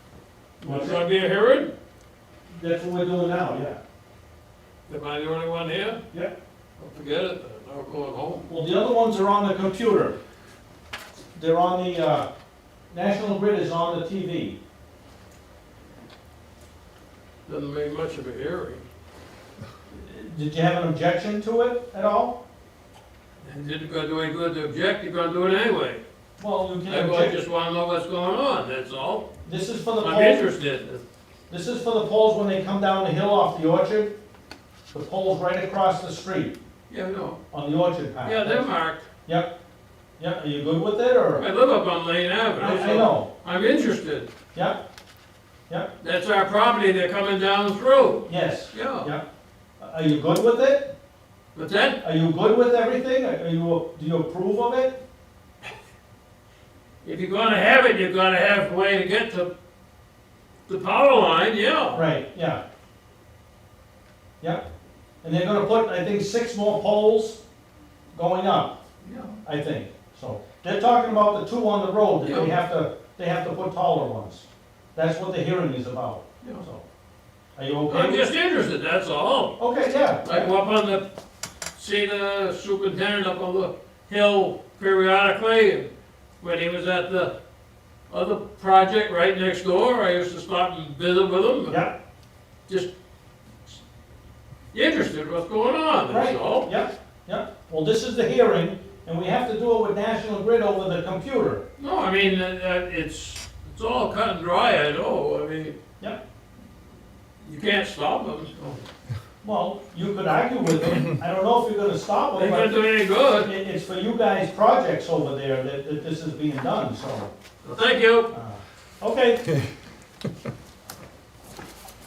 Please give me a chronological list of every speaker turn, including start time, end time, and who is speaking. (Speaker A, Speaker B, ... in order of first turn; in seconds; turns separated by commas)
Speaker A: 0.6-1.8, Speaker B: 0.6-1.0, Speaker B: 2.5-3.8, Speaker A: 4.9-6.0, Speaker A: 6.8-8.5, Speaker B: 8.5-10.2, Speaker B: 11.3-12.3, Speaker B: 12.9-14.6, Speaker A: 17.5-18.9, Speaker B: 19.9-22.4, Speaker A: 23.4-26.0, Speaker B: 26.4-27.4, Speaker A: 26.9-29.3, Speaker B: 29.4-30.4, Speaker A: 30.0-31.0, Speaker B: 31.5-34.2, Speaker B: 34.9-36.6, Speaker A: 36.9-37.4, Speaker B: 37.5-38.7, Speaker A: 38.2-39.1, Speaker B: 39.2-39.5, Speaker B: 40.2-41.5, Speaker A: 41.3-44.3, Speaker B: 42.6-43.3, Speaker B: 44.5-44.8, Speaker A: 46.0-49.1, Speaker B: 48.3-49.3, Speaker B: 49.8-50.9, Speaker A: 51.5-52.0, Speaker B: 52.0-55.0, Speaker A: 57.0-59.5, Speaker A: 60.7-62.1, Speaker B: 61.9-62.6, Speaker B: 64.4-64.7, Speaker B: 65.2-67.4, Speaker B: 68.1-68.8, Speaker A: 69.0-69.4, Speaker B: 69.4-76.8, Speaker A: 72.2-72.6, Speaker B: 77.6-78.2, Speaker A: 77.9-79.6, Speaker B: 79.6-80.5, Speaker A: 80.2-81.1, Speaker A: 81.8-87.4, Speaker A: 88.1-91.8, Speaker B: 91.7-92.0, Speaker A: 94.7-96.7, Speaker B: 96.1-101.6, Speaker A: 101.8-105.8, Speaker A: 107.4-108.8, Speaker B: 109.4-112.8, Speaker A: 112.3-113.5, Speaker B: 113.3-117.3, Speaker A: 117.6-118.3, Speaker B: 118.3-119.5